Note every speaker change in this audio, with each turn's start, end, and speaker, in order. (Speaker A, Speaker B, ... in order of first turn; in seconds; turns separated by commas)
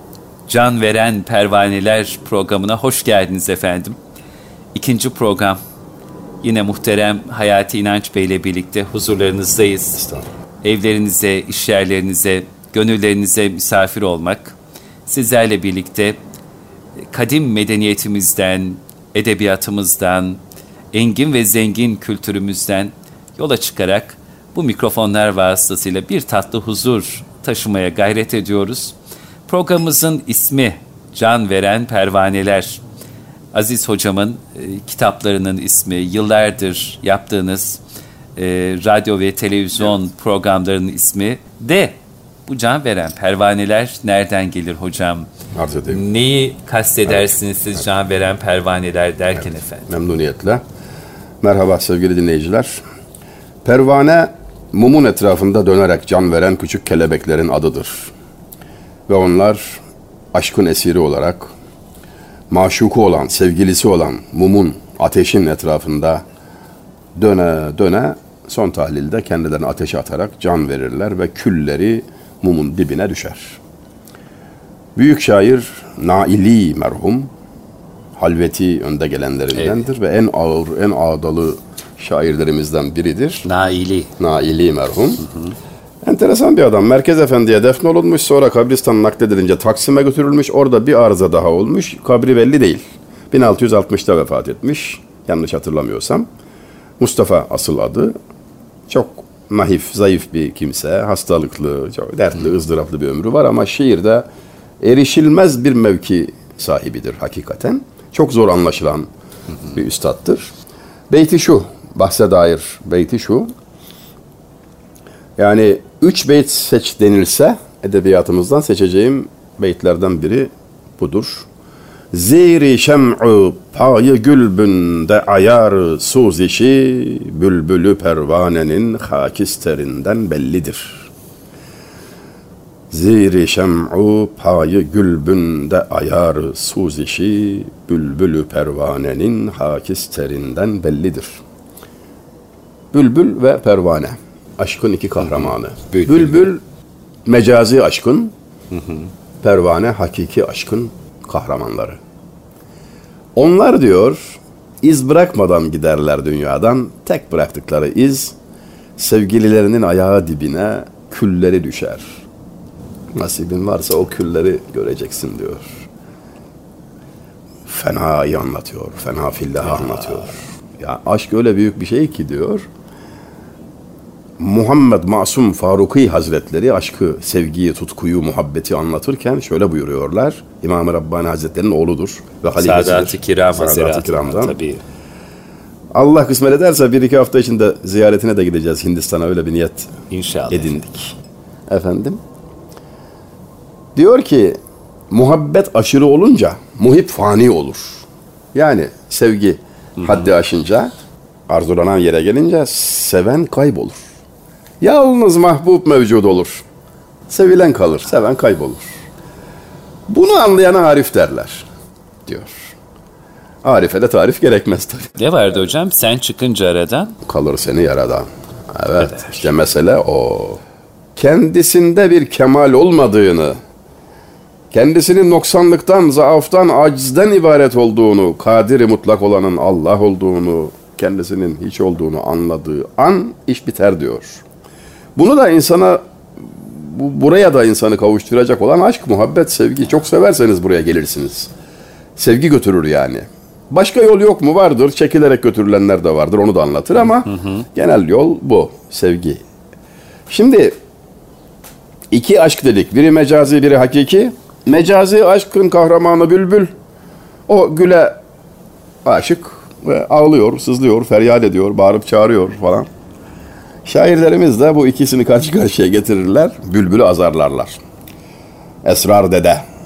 Speaker A: 0.5-4.0, Speaker A: 4.7-5.6, Speaker A: 6.4-10.0, Speaker B: 10.0-10.2, Speaker A: 10.6-14.6, Speaker A: 15.1-16.2, Speaker A: 17.1-20.4, Speaker A: 20.9-29.0, Speaker A: 29.5-32.8, Speaker A: 33.5-37.8, Speaker A: 38.4-42.0, Speaker A: 42.5-45.3, Speaker B: 45.5-46.0, Speaker A: 45.9-49.9, Speaker B: 49.9-50.6, Speaker B: 51.4-52.8, Speaker B: 53.6-58.1, Speaker B: 59.1-59.8, Speaker B: 60.3-61.5, Speaker B: 62.5-66.2, Speaker B: 67.2-73.6, Speaker B: 75.0-77.3, Speaker B: 78.2-83.5, Speaker A: 79.6-79.8, Speaker A: 83.5-84.1, Speaker B: 84.2-85.2, Speaker B: 86.0-96.3, Speaker B: 97.0-98.2, Speaker B: 98.9-104.3, Speaker B: 104.8-109.1, Speaker B: 109.7-110.5, Speaker B: 111.1-113.5, Speaker B: 115.4-121.5, Speaker B: 122.1-131.1, Speaker B: 132.9-141.4, Speaker B: 142.9-146.6, Speaker A: 145.9-146.5, Speaker B: 147.2-148.3, Speaker A: 148.7-149.1, Speaker B: 149.4-152.0, Speaker B: 153.4-158.3, Speaker B: 159.0-162.2, Speaker B: 163.1-165.9, Speaker B: 167.7-172.7, Speaker B: 174.4-184.6, Speaker A: 182.6-184.8, Speaker B: 185.9-189.9, Speaker A: 190.1-190.7, Speaker B: 190.5-191.2, Speaker B: 191.7-192.2, Speaker B: 193.9-194.6, Speaker B: 195.1-200.9, Speaker B: 201.5-204.0, Speaker B: 204.8-206.7, Speaker B: 207.3-209.0, Speaker B: 210.1-211.7, Speaker B: 212.3-212.7, Speaker B: 213.6-215.1, Speaker A: 215.2-217.2, Speaker B: 217.2-220.6, Speaker A: 219.0-219.4, Speaker B: 221.2-223.6, Speaker B: 224.7-234.4, Speaker B: 235.2-241.5, Speaker B: 242.2-249.4, Speaker B: 250.3-250.8, Speaker B: 252.1-256.7, Speaker B: 257.5-258.2, Speaker B: 259.1-262.9, Speaker B: 263.9-267.8, Speaker B: 268.8-269.6